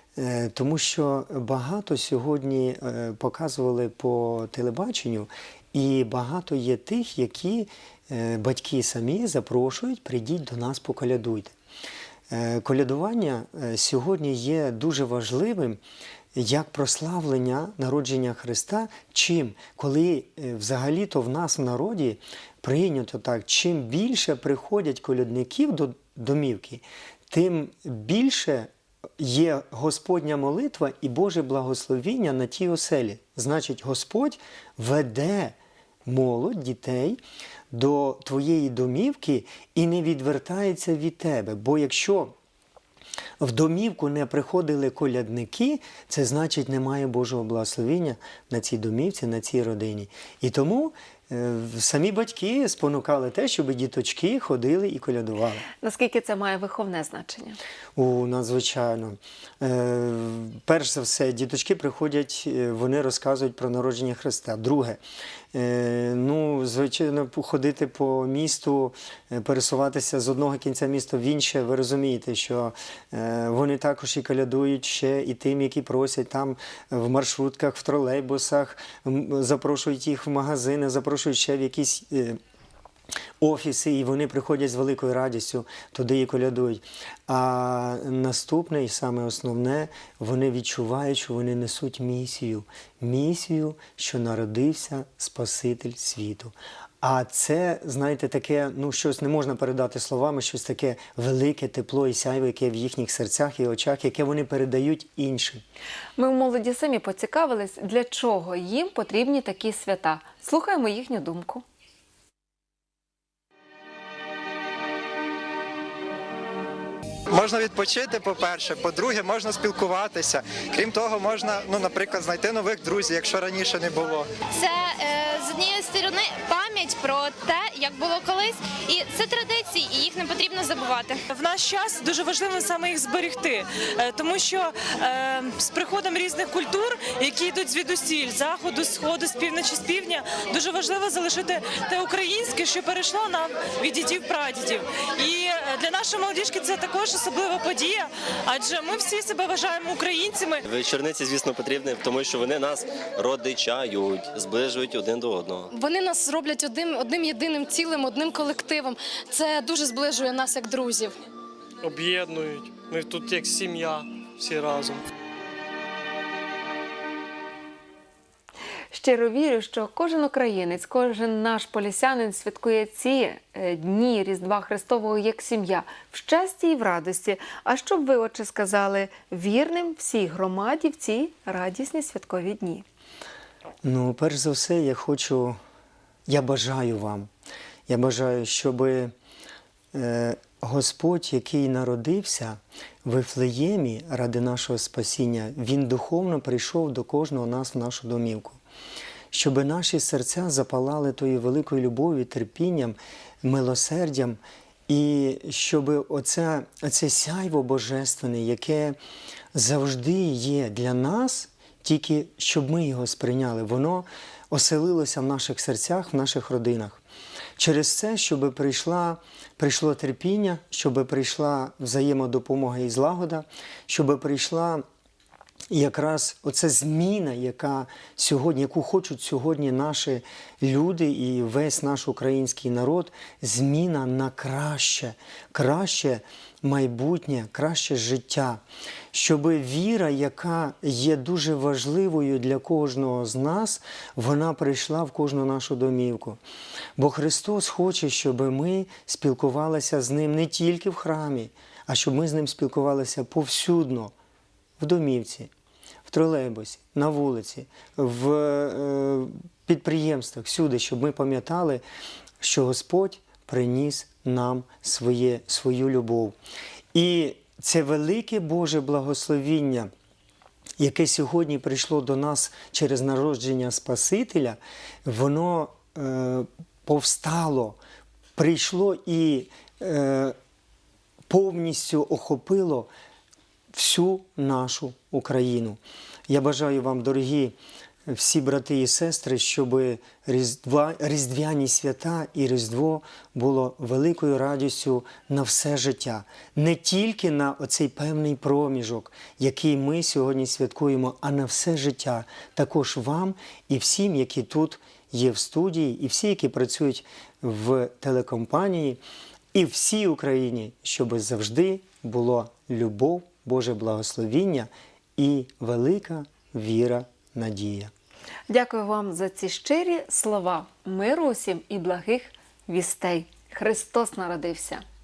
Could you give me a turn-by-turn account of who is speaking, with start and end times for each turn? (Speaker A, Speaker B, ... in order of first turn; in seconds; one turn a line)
Speaker A: 0.2-11.6
Speaker A: 12.3-15.8
Speaker A: 16.3-42.3
Speaker A: 43.4-55.6
Speaker B: 55.8-57.6
Speaker A: 58.0-65.0
Speaker A: 65.5-82.4
Speaker A: 83.4-105.6
Speaker B: 106.2-111.7
Speaker C: 117.3-124.3
Speaker D: 124.5-131.2
Speaker E: 131.3-150.7
Speaker F: 150.7-155.7
Speaker G: 155.7-161.2
Speaker H: 161.8-165.1
Speaker B: 168.9-182.9
Speaker A: 183.8-185.6
Speaker A: 186.3-187.3
Speaker A: 187.9-189.1
Speaker A: 189.9-198.6
Speaker A: 199.3-209.0
Speaker A: 209.5-217.0
Speaker A: 217.6-224.8
Speaker A: 225.7-238.6
Speaker A: 239.1-246.4
Speaker A: 247.0-254.1
Speaker A: 254.8-255.5
Speaker A: 256.1-261.8
Speaker A: 262.4-266.4
Speaker A: 266.9-269.9
Speaker A: 270.8-277.8
Speaker A: 278.4-280.4
Speaker A: 281.3-282.9
Speaker A: 283.7-309.0
Speaker A: 309.5-317.9
Speaker B: 318.5-324.8